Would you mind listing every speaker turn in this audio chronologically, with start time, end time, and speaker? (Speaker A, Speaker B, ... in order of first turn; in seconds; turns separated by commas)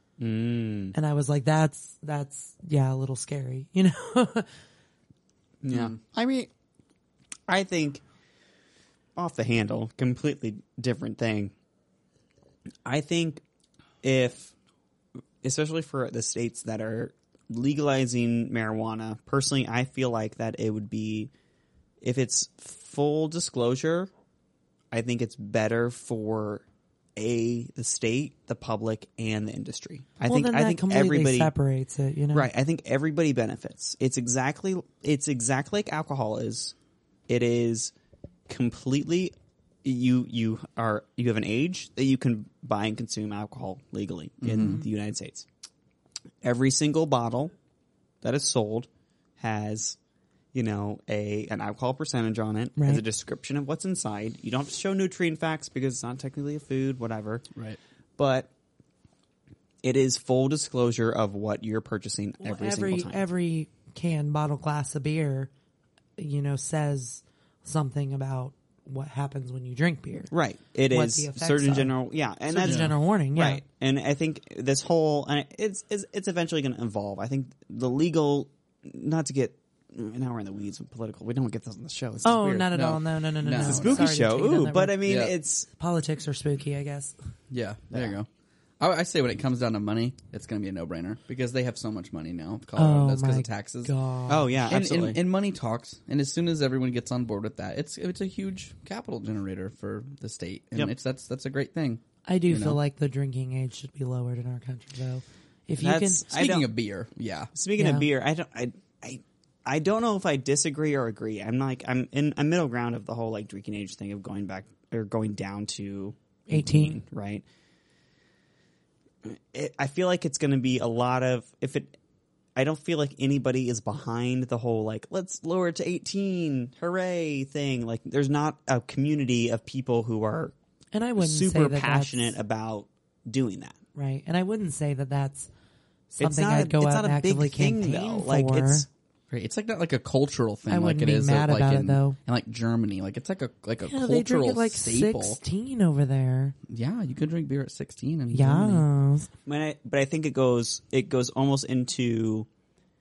Speaker A: 0.2-0.9, Speaker B: 0.9-4.5, Speaker A: 5.6-6.5, Speaker C: 5.7-5.9, Speaker A: 7.5-8.0, Speaker A: 9.2-11.5, Speaker A: 12.8-13.4, Speaker A: 14.0-14.5, Speaker A: 15.4-21.3, Speaker A: 22.0-24.1, Speaker A: 24.9-26.6, Speaker A: 27.1-31.5, Speaker B: 30.2-32.5, Speaker A: 32.3-36.7, Speaker A: 37.3-37.9, Speaker A: 38.5-39.3, Speaker A: 39.8-45.5, Speaker C: 44.4-44.8, Speaker A: 46.4-47.5, Speaker A: 48.2-50.0, Speaker A: 50.5-57.4, Speaker B: 52.8-53.0, Speaker A: 58.2-58.5, Speaker A: 59.8-63.2, Speaker B: 62.4-65.5, Speaker B: 66.2-70.3, Speaker A: 70.3-82.7, Speaker B: 70.9-71.9, Speaker B: 72.5-73.6, Speaker C: 72.6-72.9, Speaker B: 82.2-87.1, Speaker C: 82.7-84.1, Speaker A: 83.5-85.7, Speaker C: 85.0-85.3, Speaker C: 87.5-88.3, Speaker C: 88.8-93.9, Speaker B: 92.8-94.7, Speaker A: 94.3-95.2, Speaker C: 94.7-102.8, Speaker B: 102.2-106.2, Speaker A: 105.8-106.7, Speaker C: 106.3-107.5, Speaker A: 107.5-117.4, Speaker B: 107.8-108.1, Speaker B: 116.5-117.0, Speaker A: 119.2-122.0, Speaker A: 122.5-130.5, Speaker B: 130.9-132.3, Speaker A: 131.2-133.8, Speaker B: 133.9-135.5, Speaker B: 136.1-138.9, Speaker A: 136.2-138.9, Speaker C: 139.3-145.4, Speaker B: 140.7-142.2, Speaker B: 143.9-146.5, Speaker C: 146.7-148.8, Speaker B: 148.3-149.3, Speaker A: 149.4-152.5